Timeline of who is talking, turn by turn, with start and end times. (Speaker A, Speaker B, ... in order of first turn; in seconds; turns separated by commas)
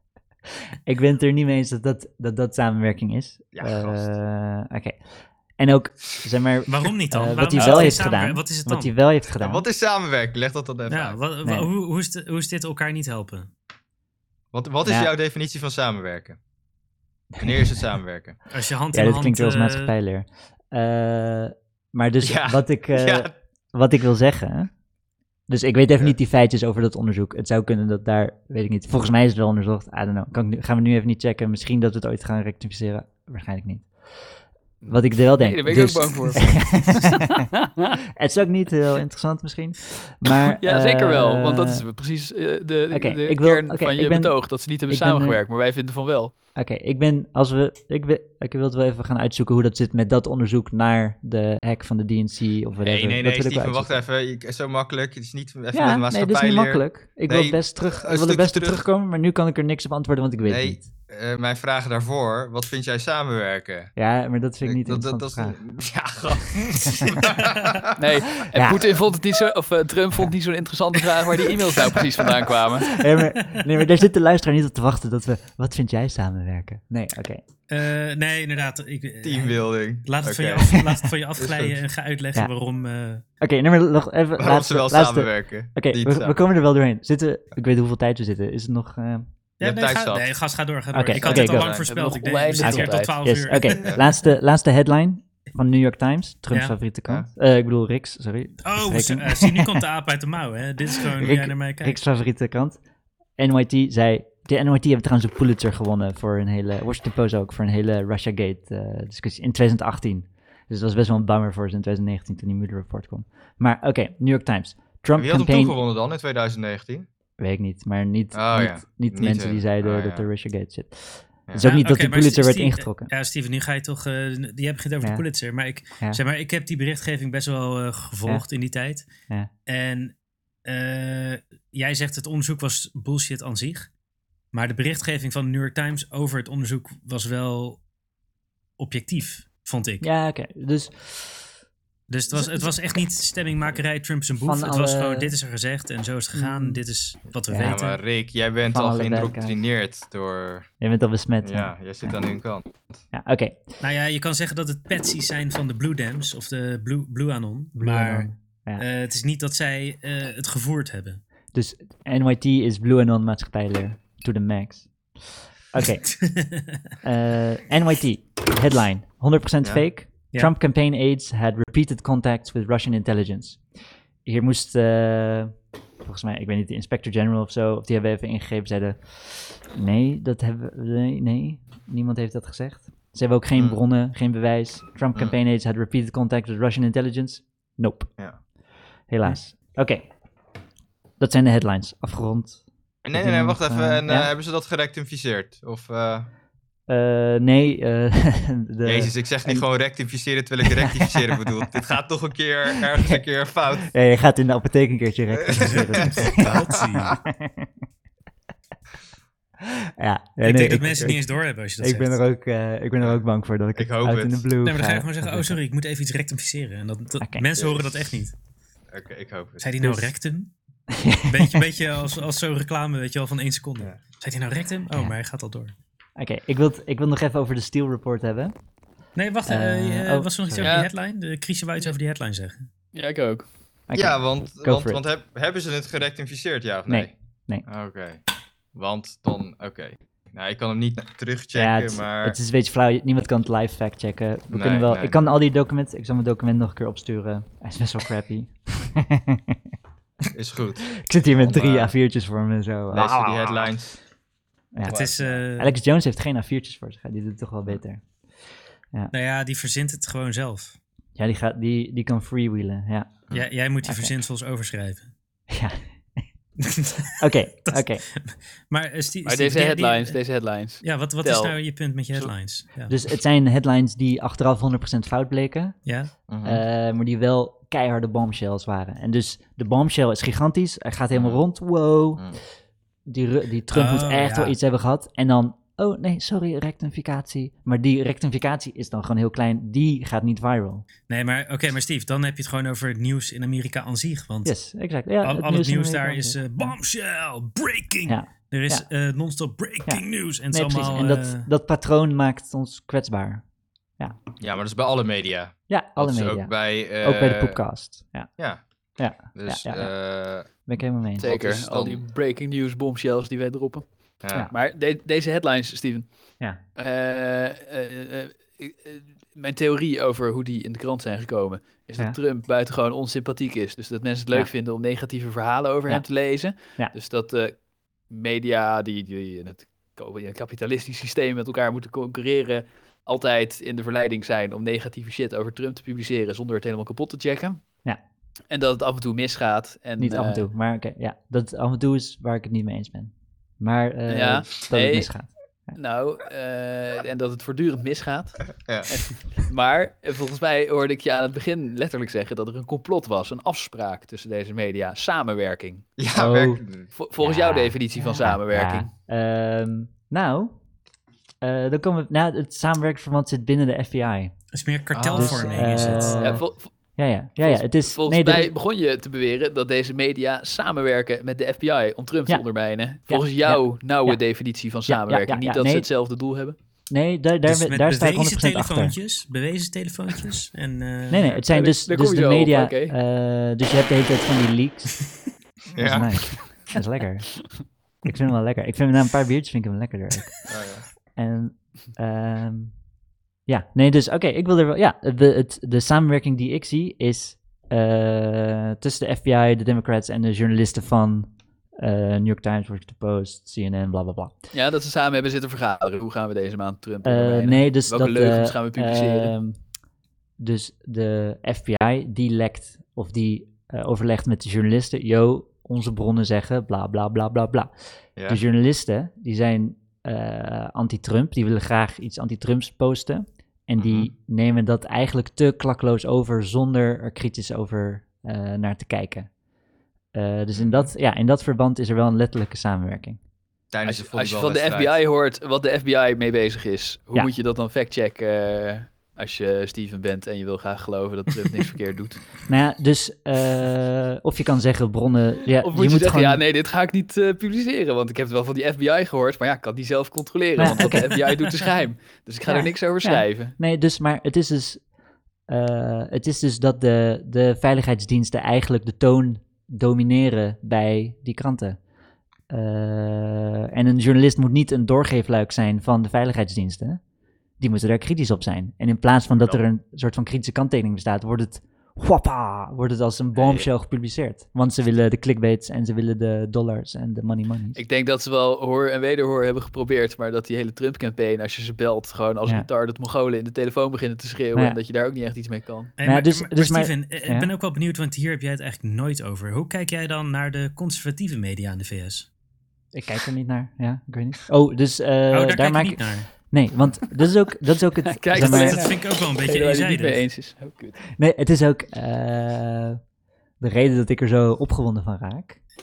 Speaker A: 0.9-5.0, Speaker B: 3.5-4.1, Speaker A: 5.6-9.7, Speaker C: 6.7-8.9, Speaker B: 7.5-7.9, Speaker B: 9.4-11.2, Speaker C: 10.9-13.5, Speaker A: 11.4-11.7, Speaker B: 14.5-16.4, Speaker A: 14.8-15.1, Speaker A: 17.4-17.8, Speaker B: 17.4-18.4, Speaker C: 18.5-19.9, Speaker A: 18.9-24.7, Speaker B: 22.2-23.3, Speaker A: 25.5-33.9, Speaker D: 34.8-38.0, Speaker A: 34.9-37.5, Speaker A: 38.1-41.8, Speaker D: 40.5-46.3, Speaker A: 42.9-45.4, Speaker A: 46.6-54.0, Speaker B: 52.8-58.8, Speaker A: 55.7-60.9, Speaker B: 60.5-63.9, Speaker A: 64.0-65.6, Speaker B: 64.6-68.0, Speaker A: 66.6-67.1, Speaker D: 68.0-72.9, Speaker A: 68.4-68.8, Speaker A: 72.9-77.4, Speaker C: 77.7-83.2, Speaker B: 79.2-80.8, Speaker B: 81.4-81.8, Speaker A: 83.4-89.3, Speaker B: 84.4-86.4, Speaker C: 89.6-94.1, Speaker B: 89.6-90.3, Speaker A: 90.9-91.8, Speaker D: 91.4-93.2, Speaker B: 91.5-91.8, Speaker A: 92.6-99.8, Speaker C: 98.6-102.0, Speaker A: 101.0-102.8, Speaker A: 103.4-115.8, Speaker B: 115.2-117.1, Speaker A: 117.4-123.1, Speaker B: 118.3-120.3, Speaker C: 121.6-129.1, Speaker C: 129.7-130.1, Speaker C: 130.7-133.9, Speaker C: 134.5-137.8, Speaker C: 138.8-140.1, Speaker A: 140.0-141.5, Speaker C: 142.1-148.0, Speaker A: 142.3-142.8, Speaker A: 144.4-145.3, Speaker A: 146.3-146.8, Speaker A: 147.5-147.8, Speaker B: 147.6-150.7, Speaker A: 148.7-149.6, Speaker A: 150.8-152.2, Speaker B: 151.4-153.0, Speaker A: 153.1-153.6, Speaker C: 153.8-161.2, Speaker A: 157.8-158.8, Speaker A: 161.5-164.9, Speaker A: 165.7-166.1, Speaker C: 166.2-166.8, Speaker A: 167.0-173.6, Speaker A: 174.3-188.1, Speaker A: 189.1-190.1, Speaker A: 191.2-192.6, Speaker B: 193.1-196.3, Speaker A: 193.1-194.3, Speaker A: 196.9-199.7, Speaker B: 198.8-203.9, Speaker A: 200.6-201.4, Speaker A: 203.9-207.7, Speaker B: 205.4-207.2, Speaker C: 205.6-207.2, Speaker A: 209.6-211.2, Speaker C: 210.4-212.2, Speaker A: 211.8-215.6, Speaker B: 213.8-214.4, Speaker C: 214.6-218.3, Speaker B: 217.6-217.9, Speaker B: 218.9-219.8, Speaker C: 219.6-220.5, Speaker A: 219.8-220.1, Speaker A: 220.9-221.7, Speaker C: 221.3-225.7, Speaker A: 226.2-228.5, Speaker C: 229.2-232.7, Speaker A: 229.5-230.8, Speaker D: 230.6-230.9, Speaker D: 232.9-233.5, Speaker A: 233.9-235.0, Speaker B: 233.9-237.1, Speaker A: 236.9-237.7, Speaker B: 237.7-238.2, Speaker B: 238.8-242.4, Speaker A: 241.5-249.7, Speaker B: 244.5-245.2, Speaker B: 250.3-251.9, Speaker A: 250.9-253.7, Speaker B: 252.9-254.0, Speaker A: 254.7-255.0, Speaker B: 254.8-255.4, Speaker C: 254.8-255.7, Speaker A: 255.6-258.0, Speaker C: 259.1-260.8, Speaker A: 261.2-263.1, Speaker C: 263.3-265.1, Speaker A: 263.8-264.1, Speaker A: 265.5-266.2, Speaker C: 266.6-270.2, Speaker A: 267.2-268.0, Speaker D: 269.2-271.6, Speaker C: 270.8-272.9, Speaker A: 272.9-275.8, Speaker C: 275.9-276.1, Speaker B: 276.3-276.6, Speaker A: 276.4-282.4, Speaker B: 281.1-281.4, Speaker A: 283.1-290.9, Speaker C: 283.7-284.6, Speaker C: 291.1-294.5, Speaker A: 294.4-296.8, Speaker C: 295.2-301.5, Speaker A: 298.1-298.9, Speaker A: 299.9-303.4, Speaker B: 304.4-307.6, Speaker A: 305.7-308.3, Speaker A: 309.0-309.9, Speaker B: 309.3-310.5, Speaker A: 310.5-311.3, Speaker B: 311.2-312.0, Speaker D: 311.2-313.9, Speaker B: 314.2-314.5, Speaker D: 314.5-316.1, Speaker D: 316.8-327.6, Speaker D: 328.1-337.6, Speaker D: 338.5-340.5, Speaker A: 340.0-345.8, Speaker D: 344.1-345.1, Speaker D: 345.8-355.9, Speaker B: 348.6-348.9, Speaker B: 356.0-356.9, Speaker A: 356.1-356.6, Speaker D: 356.9-358.9, Speaker A: 357.2-360.6, Speaker A: 361.4-364.3, Speaker C: 364.5-366.4, Speaker B: 364.9-366.3, Speaker A: 365.1-366.4, Speaker D: 366.2-366.7, Speaker A: 367.0-368.5, Speaker D: 367.4-376.6, Speaker A: 373.1-374.2, Speaker A: 374.9-375.9, Speaker A: 376.9-379.0, Speaker C: 377.4-381.4, Speaker A: 381.1-385.0, Speaker D: 381.5-382.9, Speaker B: 385.8-386.5, Speaker A: 385.8-387.5, Speaker A: 388.0-390.4, Speaker B: 390.5-390.9, Speaker A: 391.2-392.7, Speaker A: 393.5-404.3, Speaker D: 404.5-409.3, Speaker A: 407.0-409.6, Speaker A: 410.4-417.7, Speaker A: 418.3-429.3, Speaker B: 423.8-424.1, Speaker A: 430.1-433.2, Speaker B: 430.6-430.9, Speaker B: 433.7-435.0, Speaker D: 433.8-442.2, Speaker A: 442.5-446.4, Speaker D: 445.6-453.6, Speaker A: 450.6-451.2, Speaker A: 452.5-454.8, Speaker A: 455.5-461.8, Speaker A: 462.5-467.0, Speaker A: 467.6-477.8, Speaker B: 469.4-469.6, Speaker B: 473.4-473.7, Speaker D: 477.8-485.9, Speaker C: 486.0-492.3, Speaker A: 486.0-487.5, Speaker A: 492.9-498.8, Speaker C: 495.3-496.3, Speaker D: 498.0-501.0, Speaker C: 498.3-500.2, Speaker A: 501.2-503.0, Speaker A: 503.6-505.6